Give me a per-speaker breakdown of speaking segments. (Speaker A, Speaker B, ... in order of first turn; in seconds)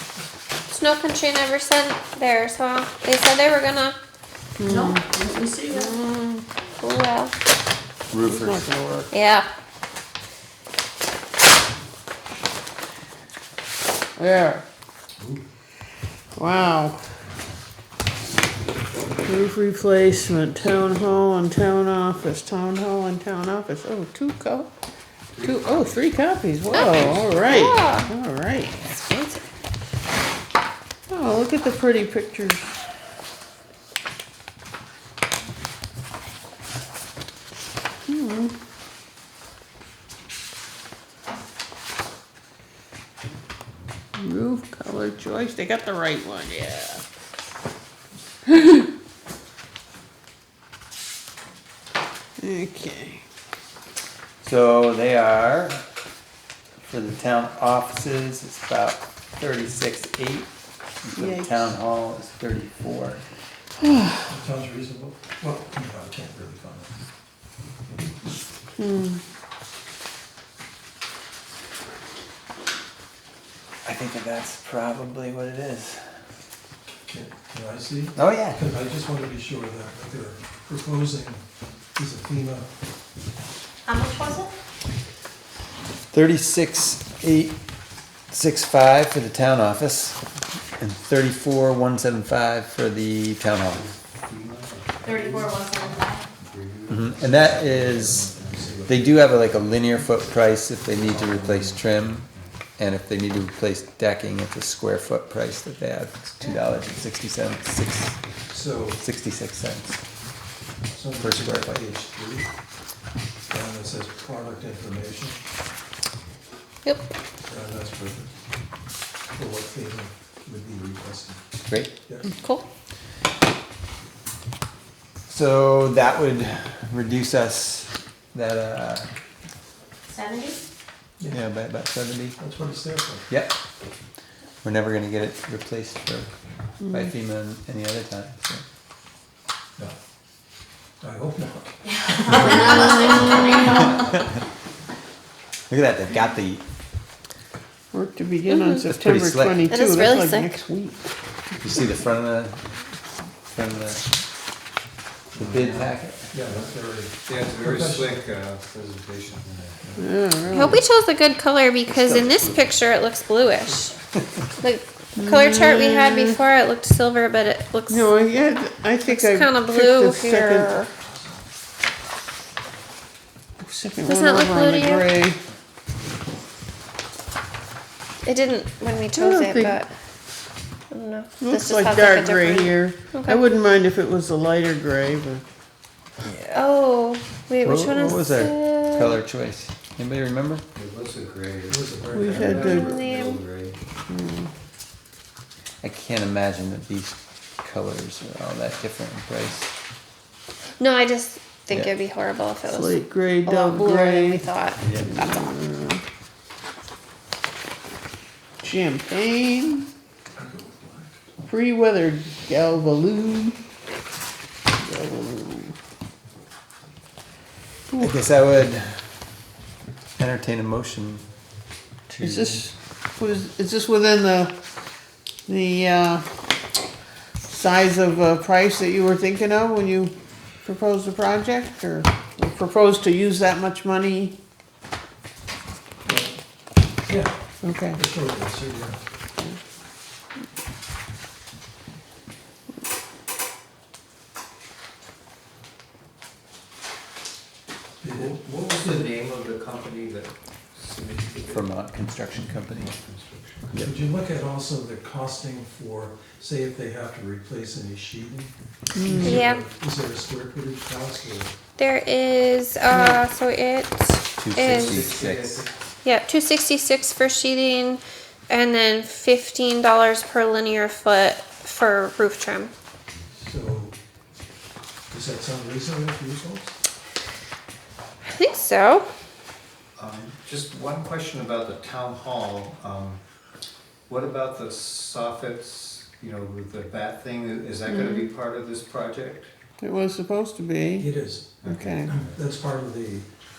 Speaker A: 0.7-4.0, 6.8-7.3, 9.1-9.5, 26.7-28.1, 28.9-29.4, 122.3-122.7, 148.5-148.8, 149.7-150.6, 160.5-164.0, 164.6-168.1, 169.1-170.9, 174.1-175.1, 178.2-179.9, 180.9-183.4, 186.4-189.2, 192.4-193.4, 200.8-205.5, 259.2-259.6, 261.8-265.0, 266.0-272.7, 278.2-279.1
Speaker B: 4.6-5.1, 5.7-6.4, 8.2-9.1, 14.2-14.6, 16.4-17.0, 19.2-24.7, 25.4-28.9, 31.1-32.7, 38.1-38.5, 44.2-47.0, 48.5-48.9, 52.4-53.2, 61.1-61.7, 63.8-64.2, 68.8-69.2, 136.8-137.1, 147.9-151.0, 160.0-160.8, 165.2-166.4, 167.9-170.9, 173.6-175.4, 179.1-179.8, 181.4-185.4, 192.1-193.0, 194.1-194.5, 202.7-204.4, 205.0-206.0, 208.6-209.9, 211.4-213.6, 214.8-215.8, 222.2-224.6, 225.5-226.3, 227.5-234.4, 237.6-238.0, 258.9-259.4, 262.9-263.2, 287.9-288.3, 289.8-291.1, 291.6-292.1
Speaker C: 4.7-6.0, 83.9-84.5, 95.0-96.3, 130.1-130.6, 142.3-144.1
Speaker D: 8.1-8.6, 54.4-55.9, 56.8-60.5, 61.0-63.2, 73.8-76.2, 78.2-78.6, 86.1-87.6, 88.3-90.2, 90.8-93.8, 96.9-98.3, 98.9-108.2, 109.0-110.0, 111.2-111.8, 121.7-121.9, 125.3-129.1, 131.3-132.4, 133.3-133.6, 134.6-136.3, 136.9-138.6, 145.7-146.7, 148.9-149.7, 151.6-152.6, 153.5-154.1, 155.4-156.3, 161.9-162.6, 187.6-190.7, 195.8-199.7, 204.8-205.1, 218.0-219.1, 220.2-221.2, 222.1-222.6, 251.5-252.9, 264.4-265.7
Speaker E: 18.9-19.2, 25.3-25.9, 26.9-27.3, 93.7-98.8, 100.9-102.5, 155.3-156.7, 157.2-159.9, 190.8-193.8, 248.1-251.7, 252.6-253.9, 264.6-265.7, 280.0-283.2, 284.1-289.5, 291.6-292.4
Speaker F: 64.3-67.0, 77.1-81.4, 82.0-82.7, 97.3-99.1, 108.5-109.0, 110.9-112.5, 113.5-115.4, 117.5-118.3, 119.3-121.4, 122.1-122.3, 131.2-131.4, 132.4-133.3, 141.0-143.5, 156.3-158.2, 191.7-192.7, 210.4-211.2, 236.1-236.4, 237.1-239.0, 248.0-248.4, 253.8-261.6, 273.4-273.9, 275.1-276.7, 291.0-293.3